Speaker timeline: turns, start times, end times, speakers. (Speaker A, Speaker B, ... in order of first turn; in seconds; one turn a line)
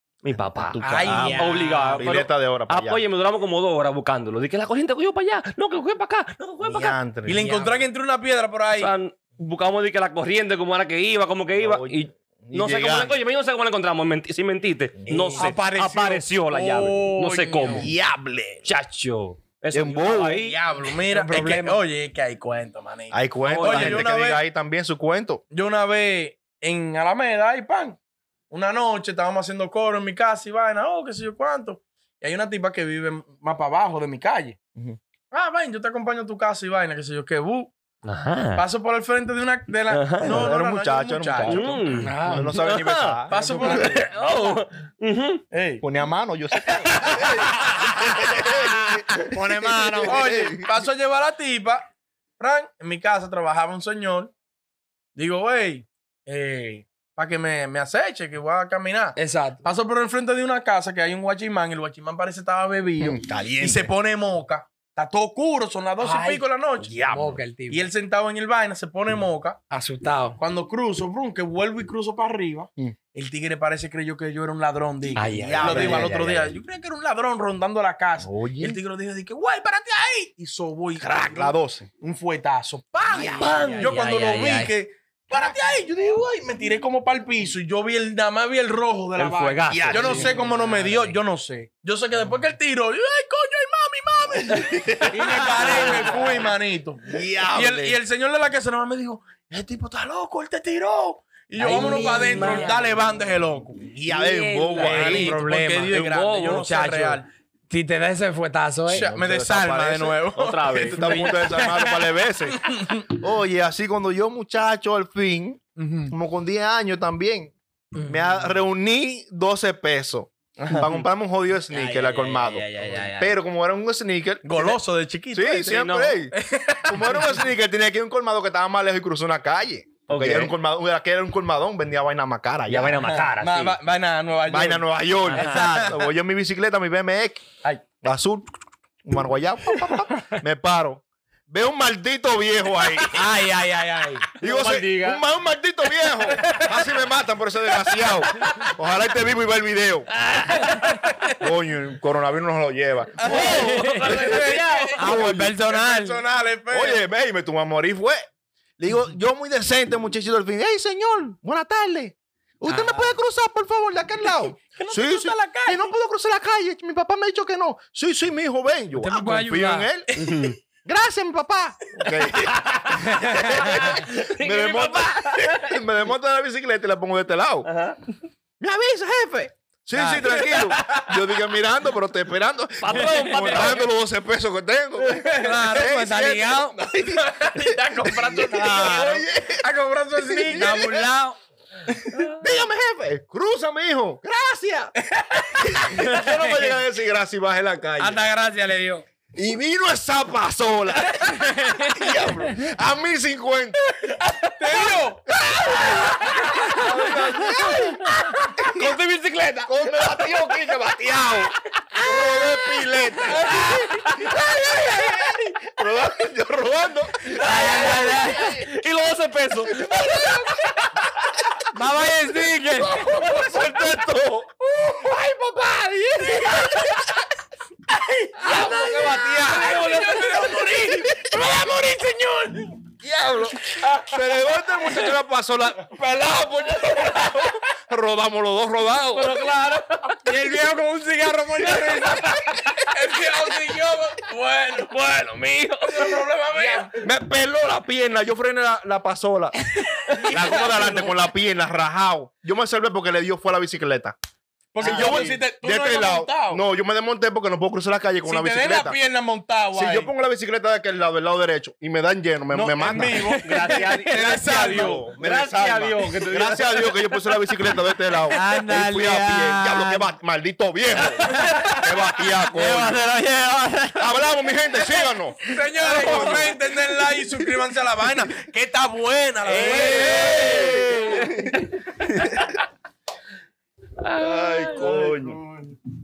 Speaker A: 0.2-7.0
Speaker B: 0.6-3.0
Speaker C: 0.8-1.6
Speaker D: 0.9-2.1
Speaker B: 6.6-7.5
Speaker C: 7.2-8.9
Speaker D: 7.4-7.8
Speaker A: 8.7-17.9
Speaker B: 11.6-13.2
Speaker B: 15.0-15.5
Speaker D: 15.3-16.3
Speaker C: 16.5-17.9
Speaker B: 17.7-18.7
Speaker A: 18.6-20.6
Speaker B: 19.7-20.4
Speaker C: 20.4-24.4
Speaker D: 21.1-21.7
Speaker B: 21.4-21.7
Speaker B: 23.1-25.4
Speaker A: 23.4-24.1
Speaker C: 25.5-28.0
Speaker C: 28.5-34.6
Speaker C: 35.3-37.7
Speaker A: 38.0-38.6
Speaker C: 38.5-42.0
Speaker A: 39.9-40.5
Speaker B: 40.2-43.7
Speaker A: 41.4-45.4
Speaker D: 41.9-42.5
Speaker C: 43.3-44.1
Speaker D: 43.5-43.8
Speaker C: 45.5-45.8
Speaker B: 45.8-50.7
Speaker C: 46.7-47.4
Speaker D: 49.1-50.3
Speaker C: 50.1-54.3
Speaker C: 55.1-69.6
Speaker D: 59.1-59.6
Speaker B: 63.0-63.9
Speaker D: 66.0-67.8
Speaker D: 69.7-70.4
Speaker C: 70.4-103.8
Speaker A: 75.1-76.5
Speaker B: 75.6-76.0
Speaker B: 78.2-78.8
Speaker B: 81.0-81.9
Speaker B: 83.1-83.8
Speaker A: 83.1-84.7
Speaker A: 89.2-91.2
Speaker B: 89.7-90.4
Speaker A: 94.7-96.5
Speaker B: 95.2-95.8
Speaker B: 97.1-98.0
Speaker A: 101.6-103.0
Speaker B: 103.8-105.4
Speaker A: 104.0-105.2
Speaker D: 104.8-109.1
Speaker C: 105.0-107.3
Speaker A: 105.9-106.7
Speaker C: 108.9-111.9
Speaker B: 108.9-124.8
Speaker A: 110.3-111.0
Speaker C: 112.6-113.0
Speaker D: 115.8-116.1
Speaker D: 118.0-118.5
Speaker A: 121.7-123.4
Speaker C: 124.4-127.4
Speaker B: 125.3-133.0
Speaker A: 125.7-126.2
Speaker A: 130.1-130.5
Speaker A: 132.7-133.8
Speaker C: 133.1-135.9
Speaker B: 134.5-137.4
Speaker A: 135.2-135.6
Speaker D: 135.3-135.9
Speaker B: 138.0-138.4
Speaker B: 139.0-143.2
Speaker D: 143.1-144.3
Speaker A: 144.4-145.2
Speaker B: 144.4-150.1
Speaker C: 146.3-146.8
Speaker A: 150.2-151.1
Speaker B: 151.4-155.6
Speaker C: 153.2-157.0
Speaker A: 153.3-155.1
Speaker D: 153.3-154.3
Speaker D: 154.9-156.2
Speaker B: 156.7-158.2
Speaker B: 158.8-170.2
Speaker D: 162.7-163.2
Speaker C: 164.8-165.9
Speaker D: 169.0-169.9
Speaker A: 170.2-170.6
Speaker B: 170.8-177.7
Speaker A: 172.3-175.9
Speaker D: 173.2-173.5
Speaker A: 177.6-178.0
Speaker B: 178.6-189.6
Speaker D: 179.9-180.5
Speaker C: 180.5-181.2
Speaker A: 182.8-183.9
Speaker C: 185.0-185.9
Speaker D: 185.3-186.8
Speaker C: 187.0-190.9
Speaker D: 188.5-189.2
Speaker B: 190.2-191.1
Speaker D: 190.5-191.4
Speaker B: 192.3-194.9
Speaker C: 195.1-195.7
Speaker B: 195.5-198.2
Speaker D: 196.0-196.7
Speaker D: 198.0-199.0
Speaker B: 199.3-204.2
Speaker D: 201.3-202.2
Speaker C: 204.4-205.2
Speaker B: 205.3-209.0
Speaker D: 206.4-206.8
Speaker A: 206.8-210.8
Speaker B: 209.6-218.7
Speaker A: 212.1-212.8
Speaker A: 217.3-220.1
Speaker D: 217.4-218.6
Speaker B: 219.8-220.5
Speaker D: 221.7-223.1
Speaker A: 222.9-224.5
Speaker B: 223.1-223.9
Speaker D: 225.0-226.8
Speaker C: 226.2-227.0
Speaker C: 227.9-232.8
Speaker A: 228.4-230.7
Speaker B: 233.0-239.4
Speaker A: 237.0-237.3
Speaker A: 239.1-240.2
Speaker D: 240.2-242.7
Speaker A: 241.7-243.6
Speaker C: 242.9-244.9
Speaker A: 244.8-246.9
Speaker C: 245.8-247.0
Speaker B: 246.9-249.6
Speaker C: 250.1-251.2
Speaker B: 250.3-254.1
Speaker C: 254.7-256.6
Speaker A: 254.8-255.4
Speaker B: 254.8-259.0
Speaker C: 258.2-260.1
Speaker B: 259.7-263.3
Speaker C: 262.5-265.1
Speaker A: 262.9-267.1
Speaker D: 262.9-264.8
Speaker B: 264.1-273.1
Speaker D: 268.2-270.1
Speaker D: 271.2-271.9
Speaker D: 272.4-274.2
Speaker B: 273.9-276.5
Speaker C: 275.4-281.2
Speaker D: 275.8-276.4
Speaker A: 276.0-276.5
Speaker B: 279.4-281.6
Speaker A: 279.6-282.5
Speaker A: 284.0-284.9
Speaker B: 284.2-285.4
Speaker C: 284.8-285.8